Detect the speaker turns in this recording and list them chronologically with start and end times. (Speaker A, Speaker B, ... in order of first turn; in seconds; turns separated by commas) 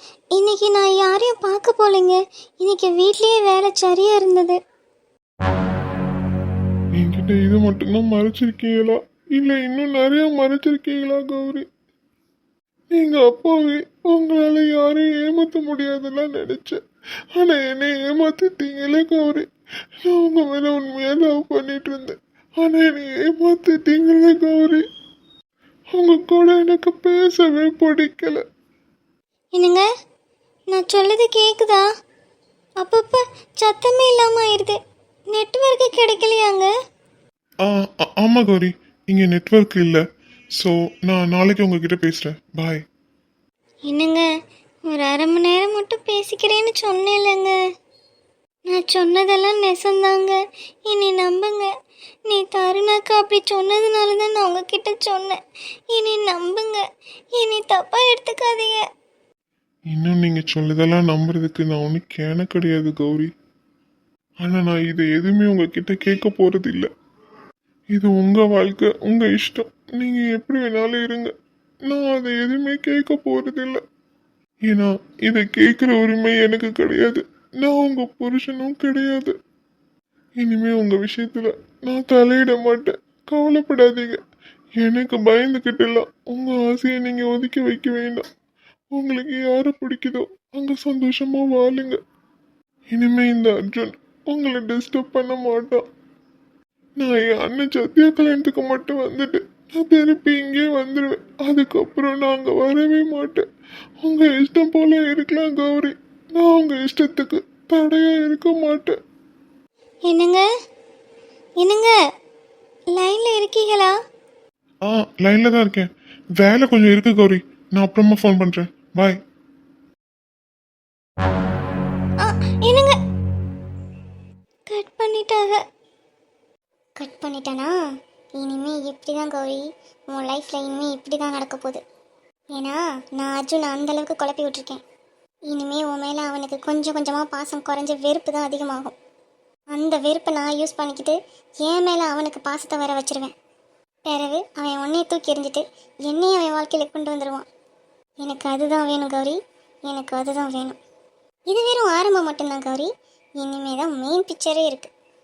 Speaker A: 0.3-4.6, Speaker B: 7.0-11.7, Speaker B: 12.9-16.8, Speaker B: 17.4-19.5, Speaker B: 20.1-24.8, Speaker B: 25.9-28.4, Speaker A: 29.5-29.9, Speaker A: 30.7-31.8, Speaker A: 32.8-34.8, Speaker A: 35.3-36.7, Speaker B: 37.6-40.0, Speaker B: 40.6-42.8, Speaker A: 43.9-44.3, Speaker A: 44.9-47.5, Speaker A: 48.7-50.4, Speaker A: 50.9-51.7, Speaker A: 52.3-55.4, Speaker A: 55.9-56.8, Speaker A: 57.4-58.8, Speaker B: 59.9-63.3, Speaker B: 64.4-66.9, Speaker B: 67.9-71.3, Speaker B: 71.9-73.8, Speaker B: 74.7-79.3, Speaker B: 80.4-84.2, Speaker B: 84.8-88.2, Speaker B: 89.0-92.0, Speaker B: 92.9-95.8, Speaker B: 97.0-103.4, Speaker B: 104.0-109.0, Speaker A: 110.1-110.5, Speaker A: 111.6-111.9, Speaker A: 112.9-113.9, Speaker B: 114.9-119.2, Speaker A: 122.2-123.0, Speaker A: 124.7-125.6, Speaker C: 127.0-127.7, Speaker C: 128.4-131.8, Speaker C: 132.6-134.8, Speaker C: 135.5-138.9, Speaker C: 139.7-143.3, Speaker C: 144.1-147.5, Speaker C: 148.2-150.8, Speaker C: 151.5-154.9